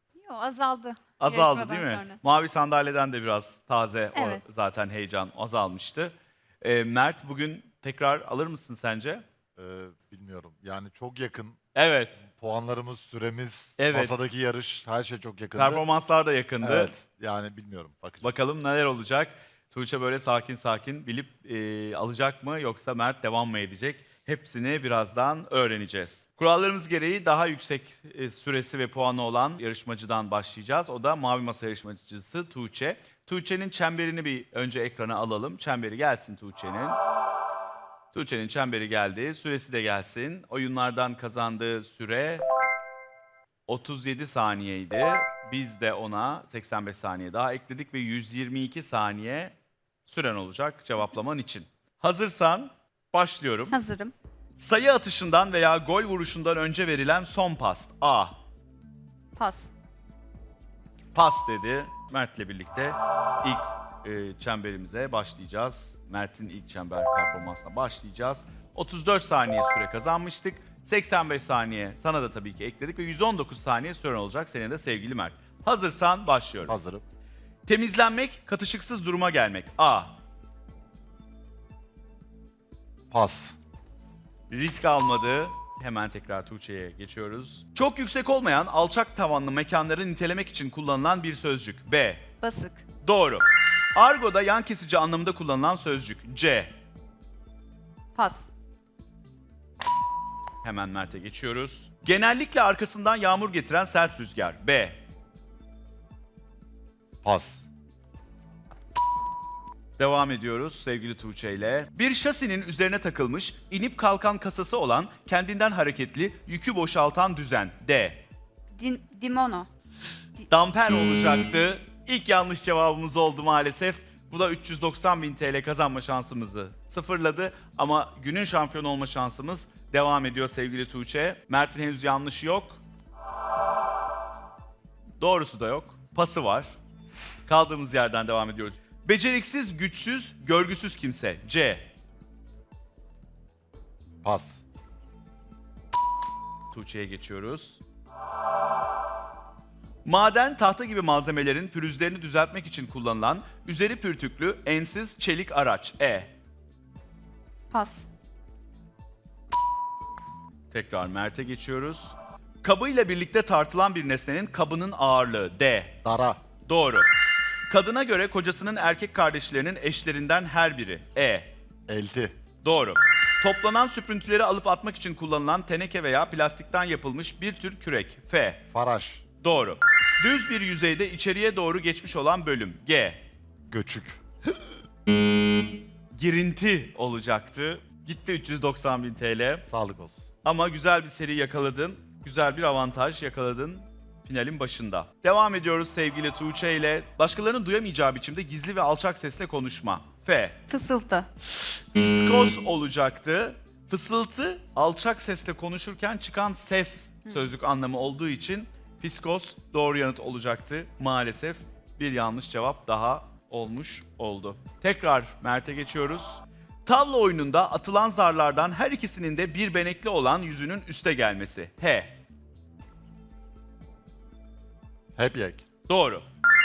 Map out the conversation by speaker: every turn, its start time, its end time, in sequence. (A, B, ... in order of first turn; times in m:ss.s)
0:00.2-0:02.2 A
0:01.2-0:09.2 B
0:04.2-0:04.4 A
0:09.6-0:11.6 C
0:11.8-0:12.2 B
0:12.3-0:15.8 C
0:13.8-0:14.2 B
0:15.6-0:16.9 B
0:16.6-0:18.4 C
0:18.2-0:37.0 B
0:38.1-0:42.5 B
0:43.7-0:49.5 B
0:50.1-0:53.8 B
0:53.7-0:54.1 A
0:54.6-0:58.4 B
0:59.4-0:59.7 A
1:01.2-1:16.8 B
1:16.6-1:17.0 C
1:17.7-1:20.2 B
1:23.1-1:23.6 C
1:24.5-1:32.3 B
1:32.4-1:32.8 A
1:33.0-1:36.7 B
1:38.2-1:38.5 A
1:40.6-1:45.0 B
1:47.2-1:47.6 C
1:50.0-1:58.2 B
1:58.8-1:59.7 A
2:00.5-2:12.8 B
2:15.2-2:16.7 B
2:17.5-2:21.9 B
2:24.2-2:24.6 C
2:26.7-2:27.8 B
2:30.0-2:36.3 B
2:37.7-2:38.1 A
2:40.7-2:46.0 B
2:46.0-2:46.4 C
2:46.7-2:47.1 B
2:47.7-2:51.5 B
2:51.9-2:52.3 C
2:52.6-2:58.7 B
2:58.7-2:59.2 C
2:59.4-3:03.2 B
3:03.7-3:04.2 C
3:06.1-3:09.7 B
3:09.7-3:10.3 C
3:10.4-3:20.6 B
3:20.7-3:21.3 A
3:21.9-3:42.2 B
3:45.2-3:45.6 C
3:45.9-3:46.2 B